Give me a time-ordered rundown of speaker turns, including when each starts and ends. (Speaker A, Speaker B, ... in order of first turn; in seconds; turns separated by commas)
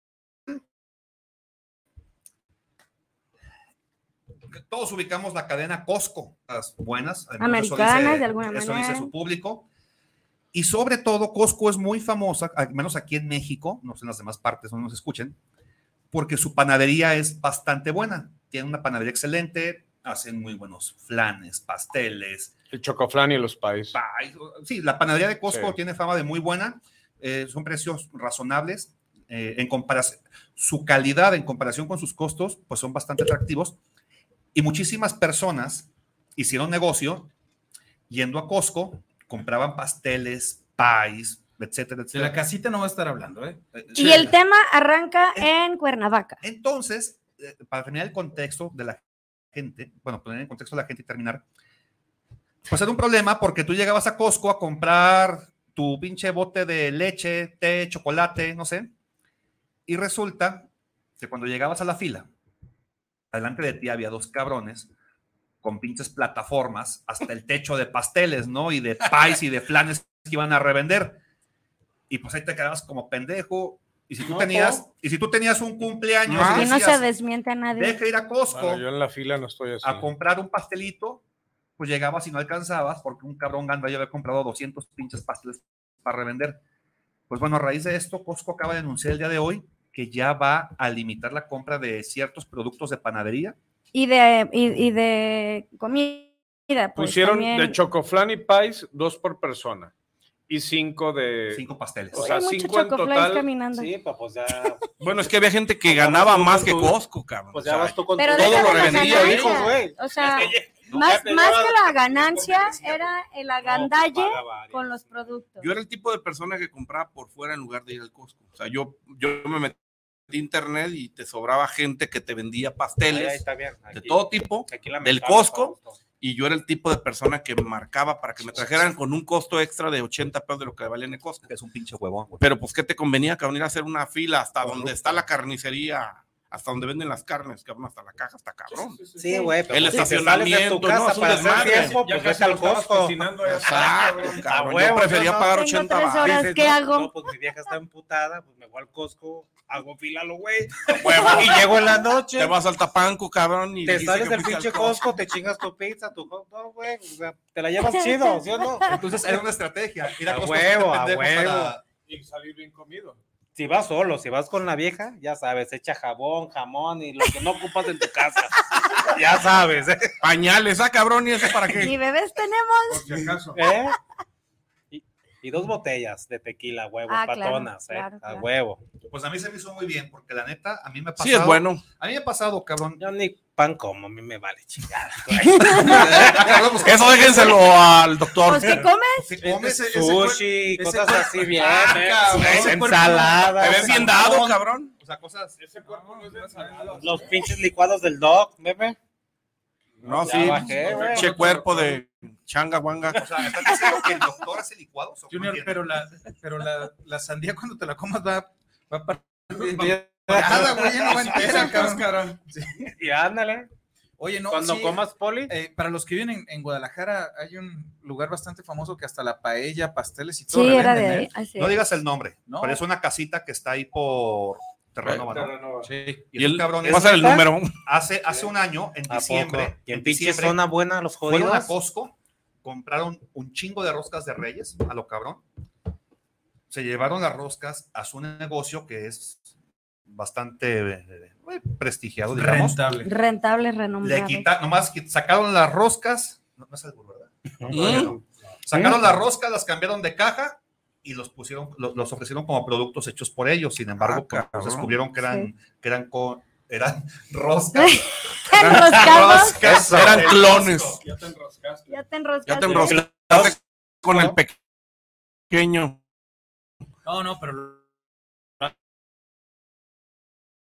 Speaker A: 4.5-9.7, Speaker B: 7.4-9.1, Speaker A: 10.5-15.4, Speaker A: 16.1-22.5, Speaker C: 22.7-24.0, Speaker A: 23.9-33.8, Speaker C: 25.5-25.7, Speaker A: 34.5-37.3, Speaker A: 38.1-42.4, Speaker D: 42.1-43.6, Speaker A: 43.7-44.3, Speaker B: 43.9-46.4, Speaker A: 46.4-49.0, Speaker A: 49.5-51.4, Speaker A: 52.6-58.9, Speaker A: 59.9-62.3, Speaker A: 63.3-64.9, Speaker A: 65.6-71.2, Speaker A: 72.1-77.0, Speaker E: 74.2-74.8, Speaker F: 76.3-76.7, Speaker B: 76.5-78.0, Speaker A: 77.7-78.8, Speaker C: 78.5-80.1, Speaker A: 79.8-81.2, Speaker A: 81.8-86.6, Speaker A: 87.3-93.5, Speaker B: 93.9-97.8, Speaker C: 97.0-99.9, Speaker C: 100.5-103.5, Speaker A: 101.5-102.3, Speaker B: 102.1-103.9, Speaker E: 103.7-104.9, Speaker F: 105.0-109.7, Speaker E: 105.8-107.0, Speaker E: 107.5-113.0, Speaker B: 108.2-115.7, Speaker A: 110.9-111.2, Speaker E: 113.6-115.2, Speaker F: 115.6-131.5, Speaker E: 123.1-126.0, Speaker A: 128.6-128.8, Speaker A: 131.4-132.4, Speaker F: 132.4-139.0, Speaker A: 134.6-135.2, Speaker C: 138.7-139.6, Speaker E: 139.2-143.8, Speaker F: 139.7-142.0, Speaker C: 141.2-144.8, Speaker F: 143.4-146.6, Speaker E: 144.4-145.4, Speaker B: 145.1-147.1, Speaker E: 146.2-152.5, Speaker F: 150.9-151.8, Speaker F: 152.3-155.1, Speaker E: 153.8-159.0, Speaker B: 157.9-159.0, Speaker A: 158.9-161.8, Speaker E: 160.2-161.8, Speaker C: 162.1-163.2, Speaker E: 163.5-170.2, Speaker F: 170.2-171.9, Speaker B: 171.7-173.2, Speaker C: 172.9-173.6, Speaker E: 173.4-174.0, Speaker E: 174.9-178.8, Speaker B: 177.1-178.5, Speaker A: 179.1-183.0, Speaker F: 181.2-181.8, Speaker E: 183.0-186.9, Speaker B: 185.4-186.0, Speaker F: 185.7-188.9, Speaker A: 185.7-187.6, Speaker B: 188.4-189.2, Speaker A: 189.2-190.4, Speaker D: 189.4-193.6, Speaker E: 189.8-194.2, Speaker C: 191.8-192.7, Speaker F: 192.1-194.9, Speaker A: 192.5-195.6, Speaker C: 195.6-197.5, Speaker D: 195.8-197.4, Speaker E: 197.0-199.0, Speaker C: 200.0-202.0, Speaker F: 200.0-203.3, Speaker E: 200.2-201.3, Speaker A: 203.1-206.0, Speaker D: 205.3-212.9, Speaker E: 209.5-211.6, Speaker C: 211.4-212.4, Speaker E: 212.8-213.7, Speaker D: 214.2-221.3, Speaker E: 214.5-215.5, Speaker B: 220.5-221.8, Speaker A: 221.6-225.6, Speaker D: 222.5-222.8, Speaker C: 225.3-225.9, Speaker A: 226.3-230.6, Speaker F: 226.3-227.8, Speaker E: 226.8-227.5, Speaker E: 229.1-231.8, Speaker A: 231.2-235.4, Speaker A: 236.7-239.4, Speaker A: 240.1-242.8, Speaker D: 242.3-243.1, Speaker B: 243.0-244.5, Speaker A: 244.0-248.1, Speaker E: 247.6-248.2, Speaker F: 247.7-248.1, Speaker A: 248.7-261.0, Speaker E: 248.7-249.0, Speaker F: 254.0-254.9, Speaker B: 257.8-259.7, Speaker F: 258.5-261.0, Speaker E: 259.5-260.2, Speaker C: 260.2-262.0, Speaker B: 261.9-263.0, Speaker F: 262.4-264.6, Speaker E: 262.8-263.6, Speaker E: 264.1-264.3, Speaker F: 265.5-266.0, Speaker D: 267.0-267.8